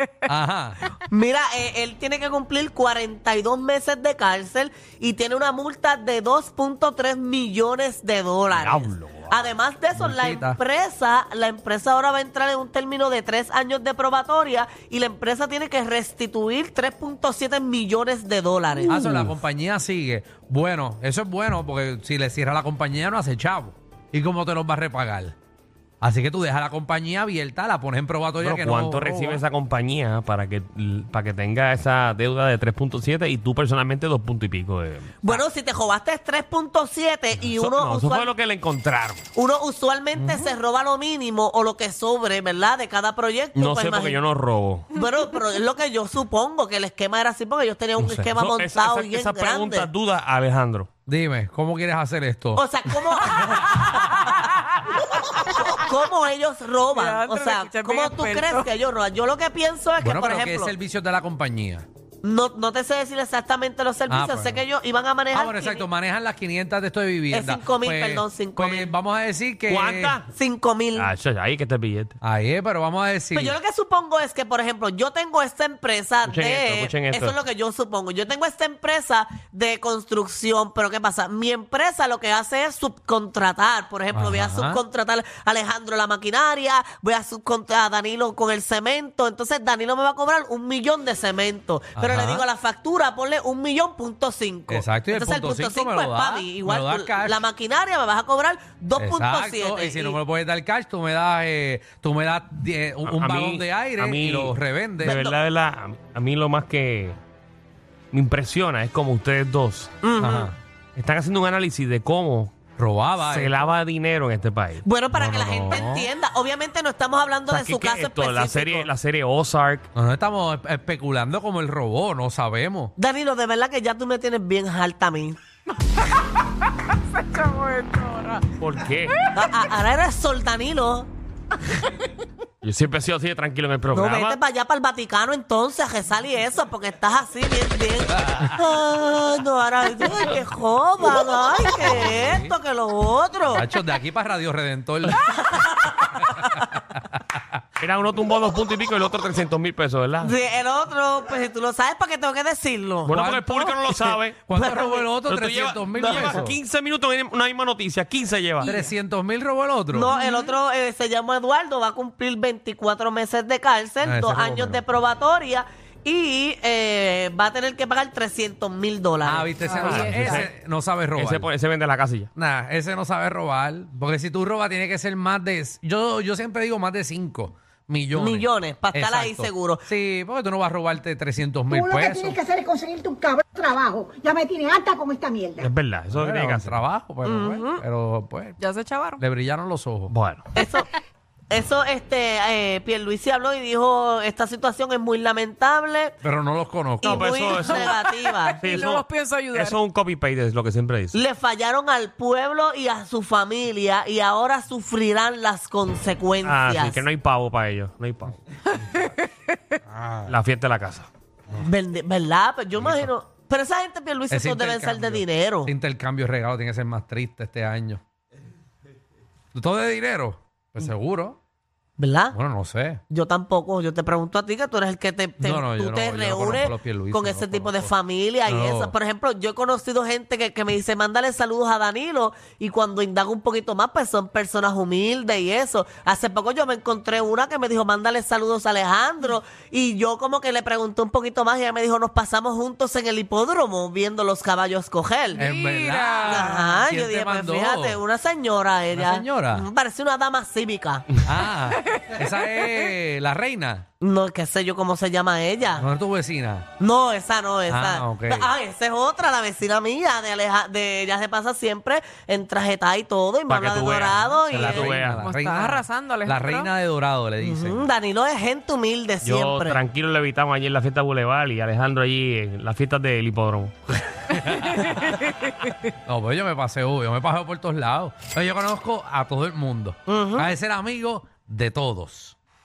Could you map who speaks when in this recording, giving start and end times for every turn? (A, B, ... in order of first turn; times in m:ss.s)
0:00.3-0:00.8 A
0:01.1-0:19.1 B
0:08.5-0:09.6 C
0:10.0-0:10.6 A
0:18.8-0:19.3 C
0:18.9-0:25.3 A
0:26.0-0:29.4 A
0:28.4-0:35.4 C
0:35.2-0:38.3 B
0:37.4-0:39.2 C
0:39.4-0:44.2 B
0:40.2-0:40.5 C
0:43.6-0:44.9 C
0:44.9-0:49.9 B
0:48.0-0:50.9 C
0:51.1-0:52.6 A
0:52.6-0:54.4 B
0:55.2-1:00.7 B
0:57.0-0:58.7 D
1:00.0-1:01.9 A
1:02.2-1:05.9 B
1:04.1-1:04.6 A
1:05.3-1:10.2 A
1:07.3-1:08.9 B
1:09.7-1:10.3 C
1:10.3-1:11.1 B
1:11.0-1:12.2 C
1:12.2-1:13.6 A
1:13.3-1:40.2 B
1:16.3-1:17.4 C
1:24.1-1:24.8 A
1:32.0-1:32.4 A
1:34.7-1:37.5 A
1:39.0-1:45.2 A
1:43.1-1:47.2 C
1:45.0-1:45.4 B
1:48.1-1:49.9 C
1:50.0-1:50.5 B
1:50.2-1:50.6 A
1:51.0-1:52.5 C
1:52.8-1:53.7 A
1:53.2-1:54.8 C
1:54.8-1:58.9 B
1:55.1-1:56.1 A
1:57.5-1:59.9 C
2:00.0-2:02.9 A
2:03.0-2:05.4 B
2:07.1-2:08.6 D
2:08.6-2:09.1 C
2:09.4-2:11.1 B
2:12.6-2:14.4 C
2:13.9-2:23.6 B
2:18.1-2:18.5 A
2:21.7-2:22.5 A
2:23.5-2:25.6 A
2:25.2-2:26.5 B
2:26.2-2:27.4 A
2:27.8-2:30.4 C
2:30.2-2:33.2 B
2:33.0-2:34.4 C
2:33.1-2:36.6 A
2:34.5-2:35.1 B
2:35.2-2:38.7 C
2:36.0-2:36.4 B
2:38.6-2:40.2 A
2:39.9-2:50.4 B
2:40.1-2:40.5 D
2:44.0-2:44.8 A
2:49.2-2:51.5 A
2:49.7-2:50.5 C
2:49.8-2:50.2 D
2:51.2-2:52.3 C
2:52.4-3:02.4 A
2:58.1-2:59.8 B
3:01.7-3:05.7 E
3:05.6-3:06.8 C
3:06.1-3:08.6 A
3:07.2-3:07.8 B
3:08.6-3:09.2 D
3:09.2-3:10.1 A
3:10.1-3:10.5 C
3:10.6-3:10.9 B
3:11.5-3:16.2 B
3:16.2-3:17.9 A
3:17.0-3:18.0 C
3:17.0-3:18.6 B
3:17.7-3:19.8 D
3:18.6-3:21.2 C
3:21.1-3:27.0 B
3:26.4-3:28.4 C
3:28.9-3:29.3 D
3:29.9-3:30.4 A
3:30.3-3:31.1 C
3:31.6-3:35.7 B
3:32.8-3:33.1 A
3:34.3-3:38.0 A
3:39.5-3:41.4 A
3:42.0-3:42.4 B
3:42.3-3:43.0 A
3:43.1-4:05.4 B
3:45.4-3:47.9 A
3:48.4-3:48.9 A
4:05.4-4:06.6 D
4:05.4-4:08.0 A
4:06.3-4:11.2 B
4:08.9-4:09.7 A
4:11.2-4:13.9 A
4:11.7-4:12.7 D
4:14.0-4:15.9 B
4:15.8-4:16.7 A
4:16.8-4:25.0 B
4:17.7-4:18.5 A
4:23.5-4:25.2 C
4:24.5-4:27.9 A
4:25.2-4:26.7 D
4:27.4-4:29.8 B
4:29.2-4:34.0 C
4:34.3-4:35.2 A
4:34.8-4:35.7 D
4:36.1-4:42.4 A
4:40.1-4:40.5 B